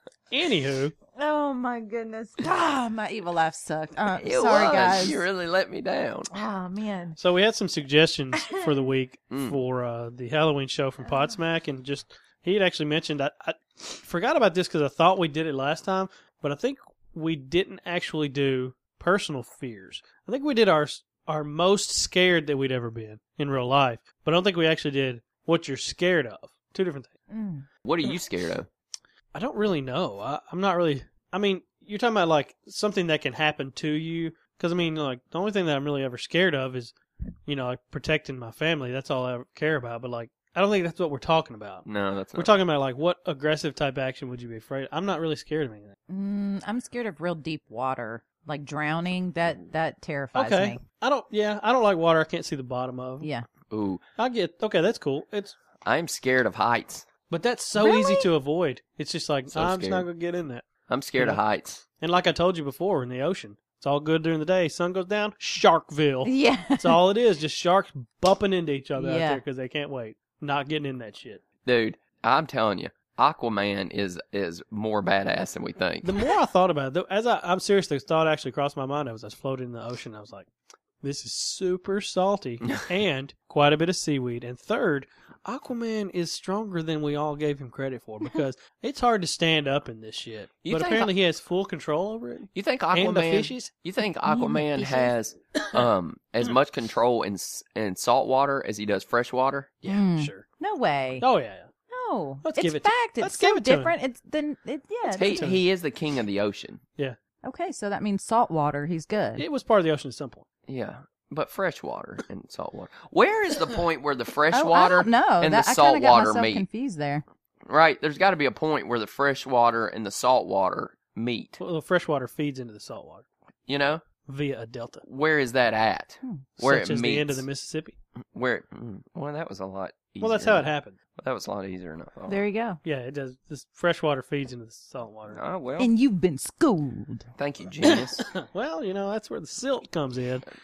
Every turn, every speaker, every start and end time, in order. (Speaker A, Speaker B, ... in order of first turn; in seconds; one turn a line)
Speaker A: 0.3-0.9
Speaker B: 1.1-5.2
Speaker C: 4.2-6.3
Speaker B: 6.3-7.2
Speaker A: 7.2-27.1
Speaker B: 8.4-8.7
Speaker C: 9.3-9.6
Speaker B: 27.3-27.7
Speaker C: 27.8-28.7
Speaker A: 29.3-37.0
Speaker A: 37.5-46.0
Speaker C: 41.9-42.6
Speaker B: 46.1-50.8
Speaker A: 50.3-53.3
Speaker B: 53.2-53.5
Speaker C: 53.7-54.0
Speaker A: 54.2-55.6
Speaker C: 55.9-57.1
Speaker A: 57.3-60.7
Speaker B: 57.8-58.3
Speaker C: 59.5-60.1
Speaker C: 60.9-61.8
Speaker A: 62.0-71.4
Speaker B: 66.2-67.0
Speaker B: 69.0-69.4
Speaker C: 71.6-76.1
Speaker A: 76.0-80.5
Speaker A: 81.0-93.7
Speaker C: 90.6-91.1
Speaker C: 92.5-99.8
Speaker B: 94.3-95.1
Speaker A: 99.8-100.5
Speaker B: 99.9-101.3
Speaker A: 101.2-101.7
Speaker B: 101.9-105.5
Speaker A: 102.4-103.9
Speaker C: 105.1-106.8
Speaker A: 105.2-105.6
Speaker B: 107.4-109.5
Speaker A: 109.4-110.5
Speaker C: 110.7-116.7
Speaker B: 114.5-117.2
Speaker C: 117.7-121.6
Speaker A: 121.6-123.2
Speaker C: 123.7-124.0
Speaker A: 124.3-125.0
Speaker C: 125.0-127.4
Speaker A: 126.6-128.0
Speaker C: 128.3-132.4
Speaker A: 130.2-131.0
Speaker B: 132.3-132.8
Speaker A: 132.8-135.4
Speaker C: 135.3-135.9
Speaker B: 135.8-137.3
Speaker C: 137.4-138.3
Speaker A: 138.0-140.4